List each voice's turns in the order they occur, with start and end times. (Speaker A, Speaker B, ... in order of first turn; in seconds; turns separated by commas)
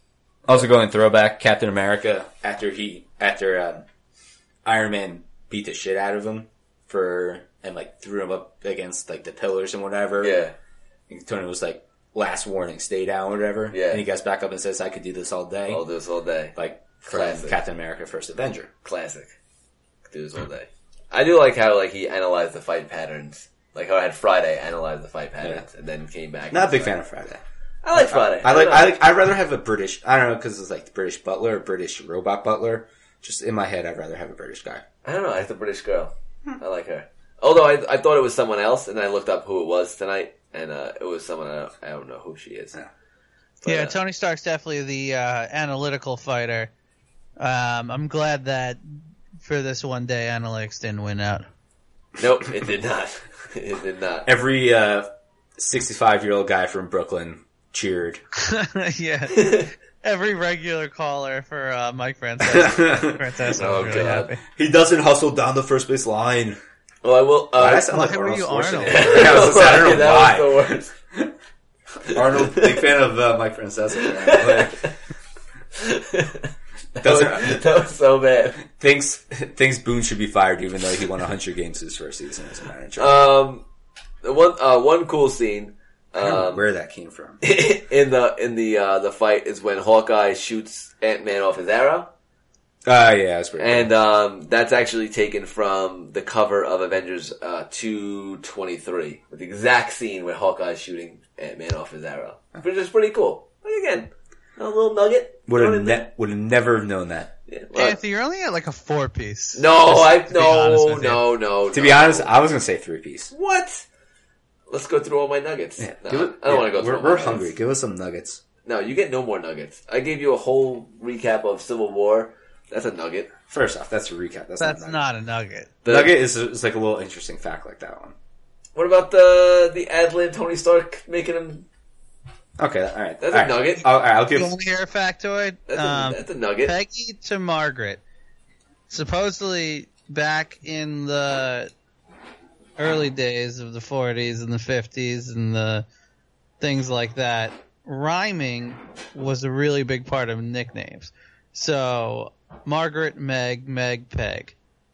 Speaker A: 0.5-3.8, Speaker A: 4.6-10.4, Speaker B: 10.2-10.5, Speaker A: 11.1-15.8, Speaker B: 13.7-14.0, Speaker B: 15.7-17.6, Speaker A: 16.6-18.7, Speaker B: 18.8-19.3, Speaker B: 20.1-26.9, Speaker A: 26.5-27.4, Speaker B: 27.8-29.0, Speaker A: 27.9-34.8, Speaker B: 35.0-42.8, Speaker B: 43.6-44.0, Speaker C: 43.6-46.7, Speaker C: 47.4-48.8, Speaker C: 49.4-51.5, Speaker B: 52.2-54.3, Speaker A: 54.2-58.2, Speaker C: 58.4-64.4, Speaker B: 59.4-59.7, Speaker A: 62.4-66.6, Speaker B: 63.5-64.3, Speaker B: 67.0-68.2, Speaker A: 67.6-71.3, Speaker C: 67.9-69.5, Speaker B: 68.8-70.9, Speaker B: 72.0-72.9, Speaker A: 72.1-74.8, Speaker B: 73.9-74.9, Speaker B: 75.7-76.5, Speaker A: 77.0-77.6, Speaker B: 77.0-78.6, Speaker A: 78.7-83.2, Speaker B: 83.0-83.6, Speaker B: 84.2-86.6, Speaker A: 86.2-87.4, Speaker B: 87.4-92.1, Speaker A: 92.8-93.9, Speaker B: 93.6-106.0, Speaker A: 105.5-107.3, Speaker B: 107.5-108.0, Speaker C: 107.7-111.2, Speaker B: 109.5-112.3, Speaker A: 111.7-113.3, Speaker B: 113.3-113.8, Speaker B: 114.7-117.5, Speaker A: 115.8-118.4, Speaker B: 118.6-123.3, Speaker A: 123.5-125.0, Speaker C: 124.6-125.7, Speaker B: 125.8-126.1, Speaker A: 125.9-128.1, Speaker B: 128.7-131.7, Speaker A: 132.6-134.5, Speaker B: 133.2-133.8, Speaker C: 134.3-138.0, Speaker B: 135.7-136.7, Speaker C: 138.9-141.7, Speaker C: 142.8-145.8, Speaker C: 146.6-154.6